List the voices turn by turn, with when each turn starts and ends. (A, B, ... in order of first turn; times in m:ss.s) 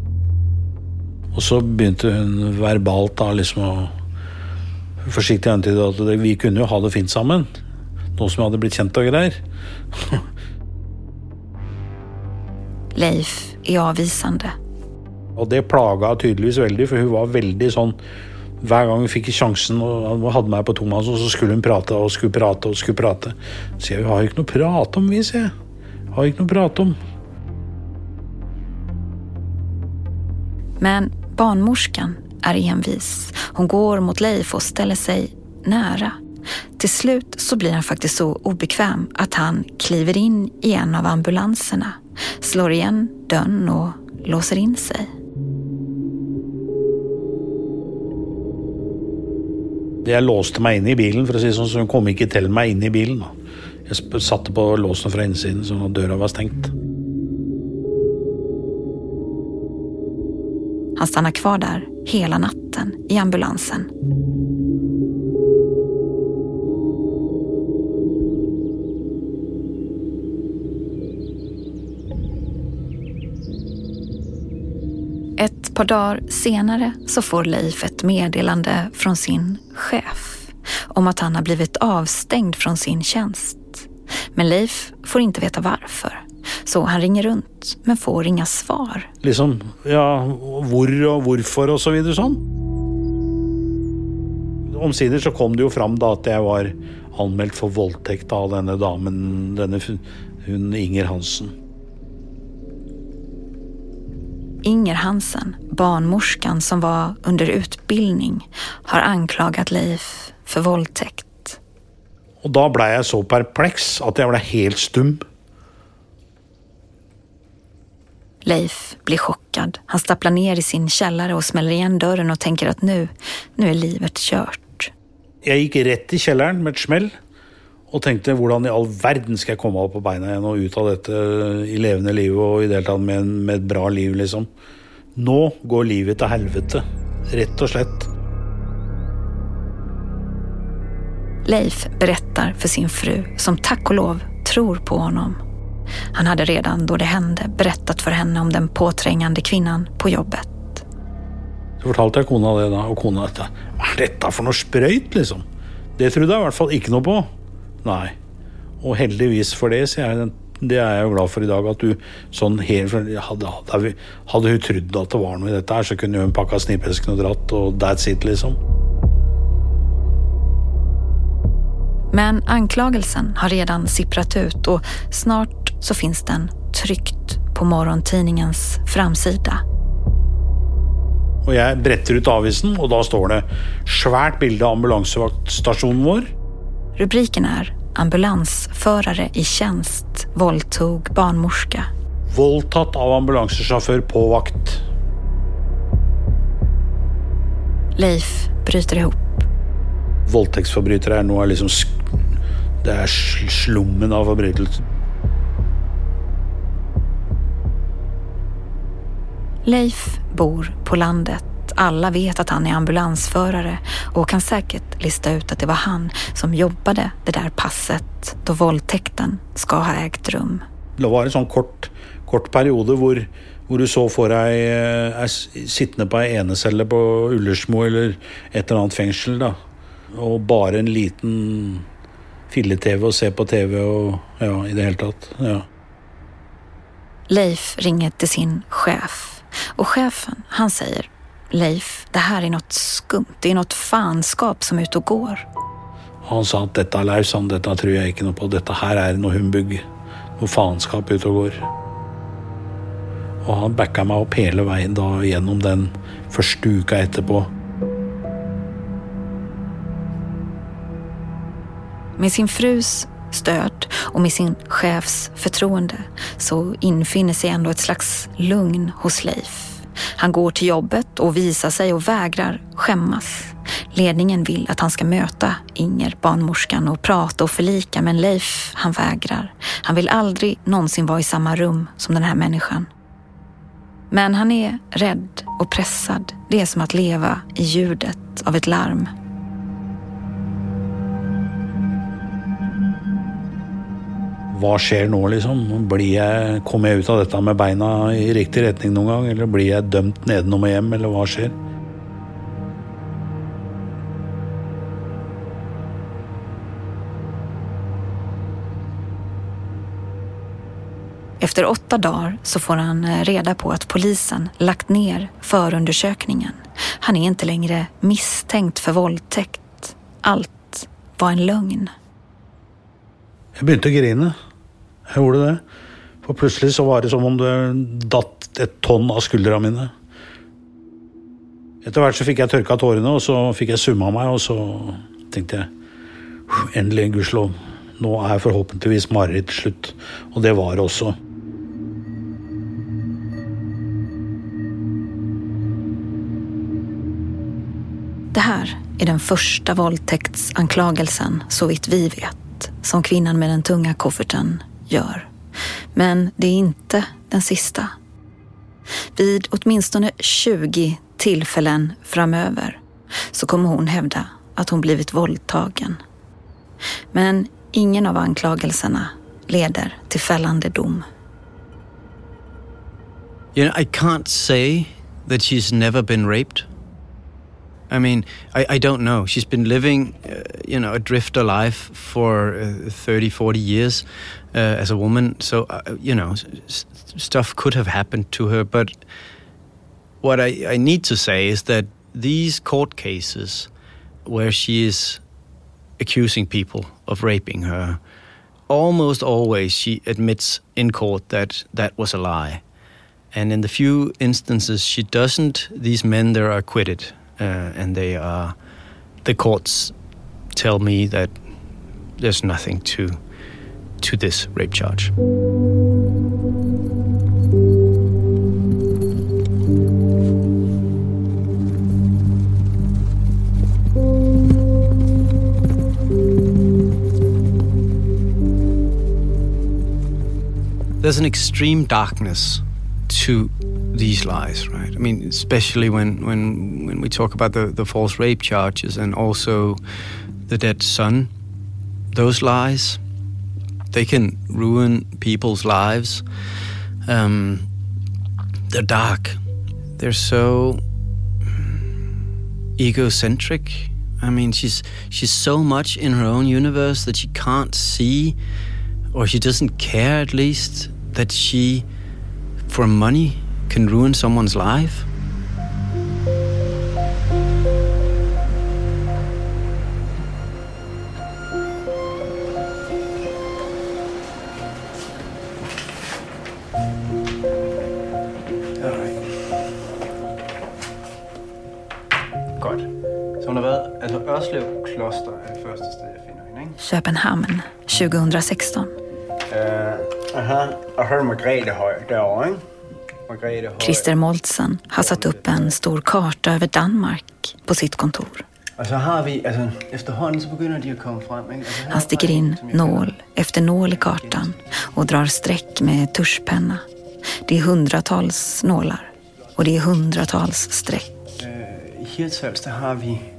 0:01.3-0:03.9 A
0:05.0-0:07.5 A
0:08.2-0:09.4 A
0:09.9-0:10.2 A
0:12.9-0:14.5 B
0:15.4-0:18.0 A
0:18.6-0:25.5 A
0:26.1-0:27.0 A
0:30.8-0:36.2 B
0:36.8-0:45.1 B
0:50.0-0:53.3 A
0:53.9-0:56.7 A
1:01.0-1:03.9 B
1:15.4-1:29.1 B
1:29.2-1:32.4 A
1:34.7-1:41.5 A
1:44.6-1:51.6 B
1:52.4-1:55.2 A
1:58.4-2:04.9 B
2:05.4-2:07.1 A
2:07.9-2:14.5 A
2:15.1-2:18.1 A
2:21.4-2:25.4 B
2:26.1-2:30.8 B
2:31.8-2:35.4 A
2:36.0-2:37.3 A
2:37.8-2:38.2 A
2:38.8-2:48.6 A
2:52.1-2:59.6 B
3:01.4-3:06.3 A
3:07.0-3:11.9 B
3:12.3-3:14.8 A
3:18.0-3:19.4 B
3:20.2-3:22.2 A
3:22.8-3:24.8 A
3:29.6-3:40.6 B
3:41.0-3:49.6 A
3:50.1-3:51.8 A
3:52.5-3:55.7 A
3:57.3-4:05.4 B
4:06.2-4:09.8 A
4:10.4-4:11.6 A
4:13.4-4:17.5 A
4:22.2-4:42.9 B
4:44.1-4:49.1 B
4:54.5-5:01.5 A
5:11.4-5:21.9 B
5:23.6-5:24.4 A
5:25.1-5:25.6 A
5:26.2-5:29.9 A
5:31.8-5:35.7 A
5:36.5-5:41.2 A
5:48.3-5:55.3 B
5:55.9-5:57.9 B
5:59.1-6:02.8 B
6:03.3-6:06.0 B
6:07.1-6:11.0 B
6:13.5-6:16.7 C
6:17.9-6:28.9 C
6:30.2-6:33.7 C
6:34.2-6:35.2 C
6:36.0-6:38.0 C
6:38.7-6:42.6 C
6:43.3-6:48.5 C
6:49.2-6:49.9 C
6:50.5-6:51.3 C
6:52.2-6:53.2 C
6:54.0-6:55.1 C
7:11.0-7:19.8 C
7:20.5-7:21.3 C
7:22.1-7:23.0 C
7:23.9-7:26.2 C
7:27.0-7:27.7 C
7:28.7-7:29.4 C
7:30.0-7:30.8 C
7:31.5-7:31.8 C
7:32.8-7:38.4 C
7:39.1-7:41.9 C
7:42.7-7:45.1 C
7:58.8-7:59.3 C
8:02.6-8:02.9 C
8:03.4-8:06.7 C
8:06.8-8:08.9 B
8:09.5-8:12.6 C
8:13.3-8:14.1 C
8:13.8-8:18.4 B
8:15.0-8:15.5 C
8:18.8-8:23.1 C
8:21.8-8:26.8 B
8:27.4-8:31.3 B
8:31.4-8:33.2 C